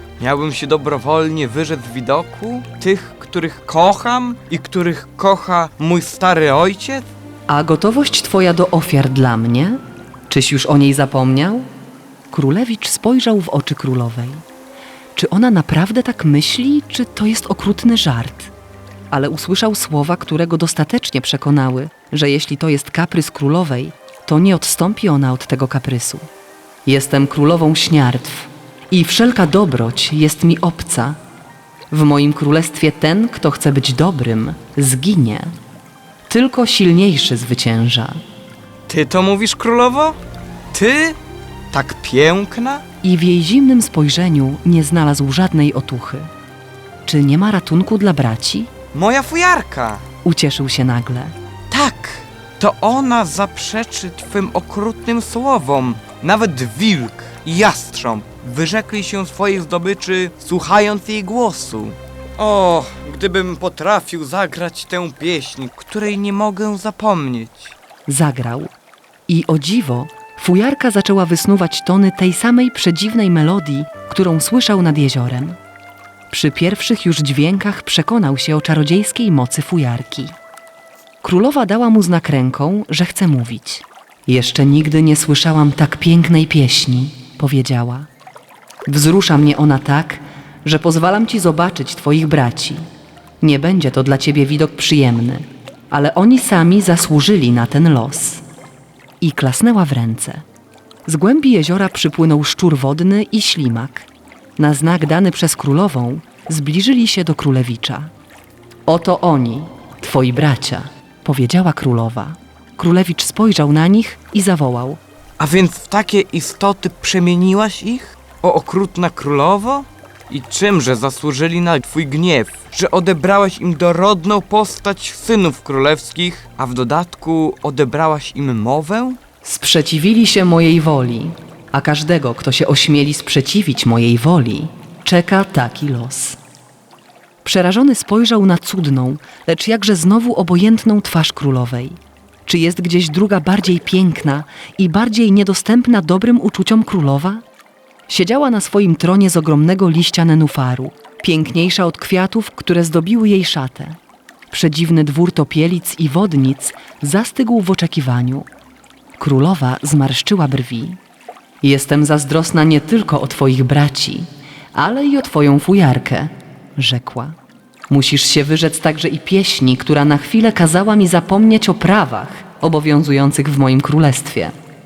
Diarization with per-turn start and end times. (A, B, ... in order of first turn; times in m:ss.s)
0:00.2-0:07.0 A
0:07.5-0:11.7 B
0:12.3-0:14.4 B
0:15.2-0:18.5 B
0:19.1-0:26.3 B
0:26.9-0:31.2 B
0:31.9-0:35.5 B
0:36.3-0:38.2 B
0:38.9-0:40.2 A
0:40.7-0:41.2 A
0:41.7-0:42.8 A
0:43.0-0:46.3 B
0:47.1-0:48.7 B
0:48.9-0:50.0 A
0:50.2-0:51.3 B
0:51.7-1:07.8 A
1:08.1-1:08.7 B
1:09.3-1:15.6 B
1:16.3-1:20.4 B
1:21.2-1:28.1 B
1:28.9-1:32.8 B
1:33.4-1:38.4 B
1:39.2-1:40.4 B
1:41.1-1:48.1 B
1:48.9-1:55.0 B
1:55.4-2:09.2 A
2:09.4-2:16.4 B
2:17.4-2:27.4 B
2:28.1-2:34.0 B
2:34.5-2:38.5 B
2:39.2-2:41.0 B
2:41.6-2:47.4 B
2:47.9-2:54.6 B